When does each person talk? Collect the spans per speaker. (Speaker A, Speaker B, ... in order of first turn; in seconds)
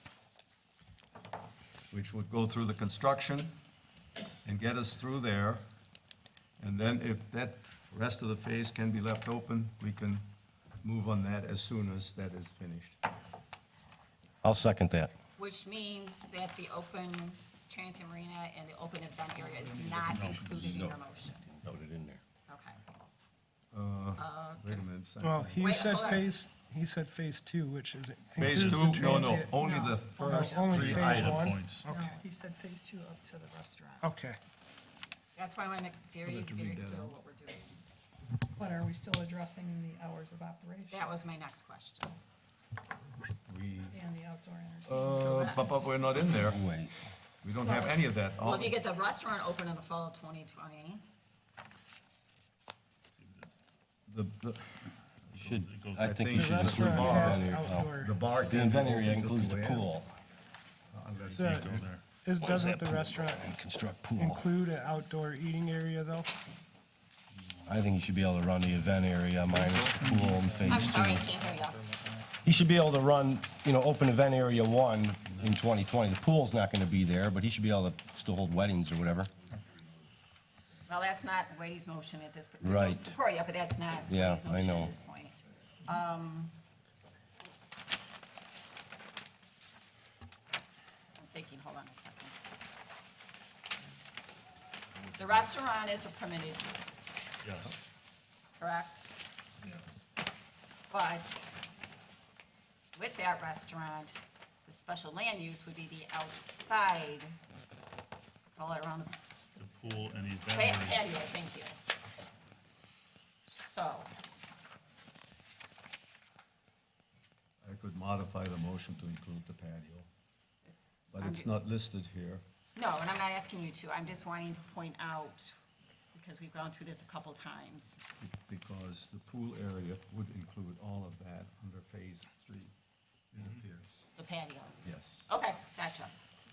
Speaker A: 1.9-3.5, 4.4-5.6, 6.6-10.2, 10.8-13.0, 19.8-20.4, 23.7-25.8, 28.4-31.3, 36.2-37.1, 43.5-44.0, 44.8-46.6, 47.4-48.7, 54.1-55.4, 56.0-59.9, 60.9-61.9, 69.5-70.9, 117.6-120.1, 121.1-122.4, 128.2-132.7, 133.3-134.1, 134.8-135.2
Speaker B: 14.4-15.1, 20.6-22.2, 46.4-46.9, 55.4-60.1, 62.4-64.5, 67.7-71.3, 72.4-79.3, 82.6-83.1, 84.1-84.9
Speaker C: 15.4-21.4, 22.5-22.8, 24.2-24.8, 25.6-26.3, 35.3-37.7, 40.9-42.2, 45.2-46.5, 47.6-51.0, 70.6-71.8, 80.9-86.5, 91.2-92.4, 95.1-97.1, 98.6-99.2, 100.9-101.5, 102.9-107.3, 108.5-109.2, 110.5-111.8, 113.5-114.1, 120.6-121.6, 122.8-125.5, 126.1-128.0, 134.2-136.1
Speaker D: 20.0-20.8, 30.7-31.9, 53.1-53.6, 55.3-57.3, 61.1-62.0, 95.2-95.5, 97.4-97.8, 109.5-111.1
Speaker E: 25.2-32.2, 34.0-34.4, 56.3-58.1, 61.3-63.5, 64.2-66.3
Speaker F: 29.1-31.2, 31.8-34.1, 38.5-41.2, 43.9-45.8